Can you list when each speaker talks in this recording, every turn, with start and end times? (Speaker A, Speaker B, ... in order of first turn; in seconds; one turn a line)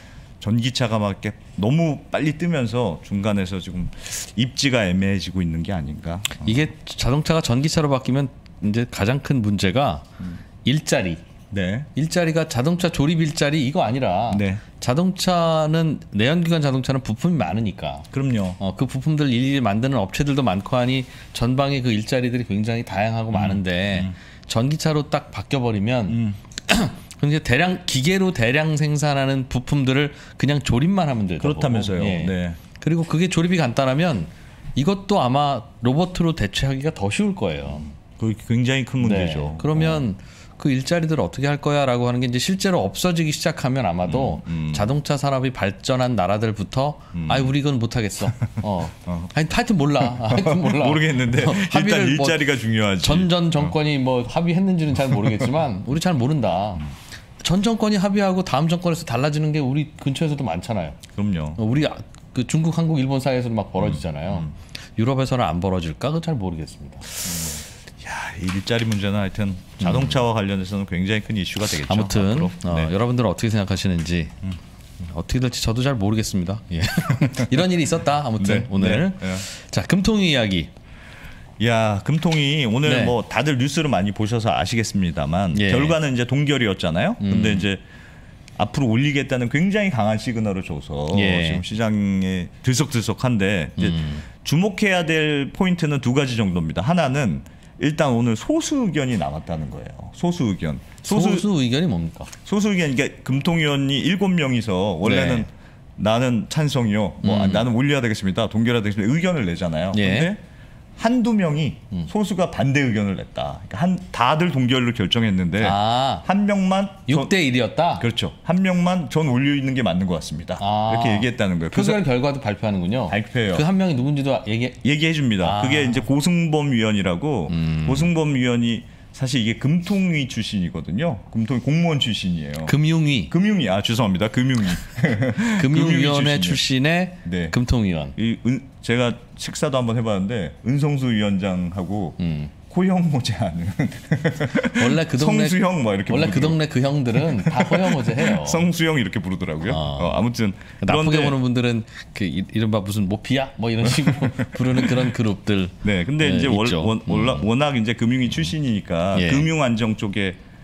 Speaker A: 0.4-6.7
Speaker B: 6.4-10.1
Speaker B: 10.6-11.2
Speaker A: 11.5-11.9
Speaker B: 11.9-37.9
Speaker A: 14.3-14.6
Speaker A: 18.1-18.6
Speaker A: 23.3-24.1
Speaker A: 26.1-26.4
Speaker A: 31.4-32.6
Speaker A: 38.0-40.1
Speaker B: 39.0-52.5
Speaker A: 44.0-44.9
Speaker A: 47.1-47.5
Speaker A: 49.0-49.3
Speaker A: 50.0-53.7
Speaker B: 53.0-61.0
Speaker A: 55.1-55.4
Speaker A: 61.1-61.6
Speaker B: 61.6-67.6
Speaker A: 63.8-64.5
Speaker A: 68.0-72.9
Speaker B: 69.8-70.2
Speaker B: 71.8-74.4
Speaker B: 75.0-80.7
Speaker A: 78.4-79.4
Speaker A: 81.6-87.8
Speaker B: 82.8-83.1
Speaker B: 85.5-86.0
Speaker B: 87.2-87.7
Speaker A: 88.6-101.5
Speaker B: 91.1-91.6
Speaker B: 93.8-94.2
Speaker B: 101.0-102.3
Speaker A: 102.4-110.4
Speaker B: 105.0-105.5
Speaker B: 107.2-107.6
Speaker B: 109.9-110.3
Speaker A: 111.0-117.3
Speaker B: 115.6-116.2
Speaker B: 117.1-118.0
Speaker A: 118.0-122.0
Speaker B: 120.6-124.8
Speaker A: 123.1-123.7
Speaker A: 124.8-132.8
Speaker B: 125.4-126.0
Speaker B: 127.5-128.1
Speaker B: 132.6-133.3
Speaker A: 133.3-136.6
Speaker B: 135.5-138.1
Speaker A: 137.2-137.6
Speaker A: 138.2-146.6
Speaker B: 142.2-142.5
Speaker B: 144.7-148.7
Speaker A: 147.1-151.3
Speaker B: 149.7-150.2
Speaker B: 150.8-157.4
Speaker A: 153.8-155.1
Speaker A: 155.8-160.4
Speaker B: 159.1-159.5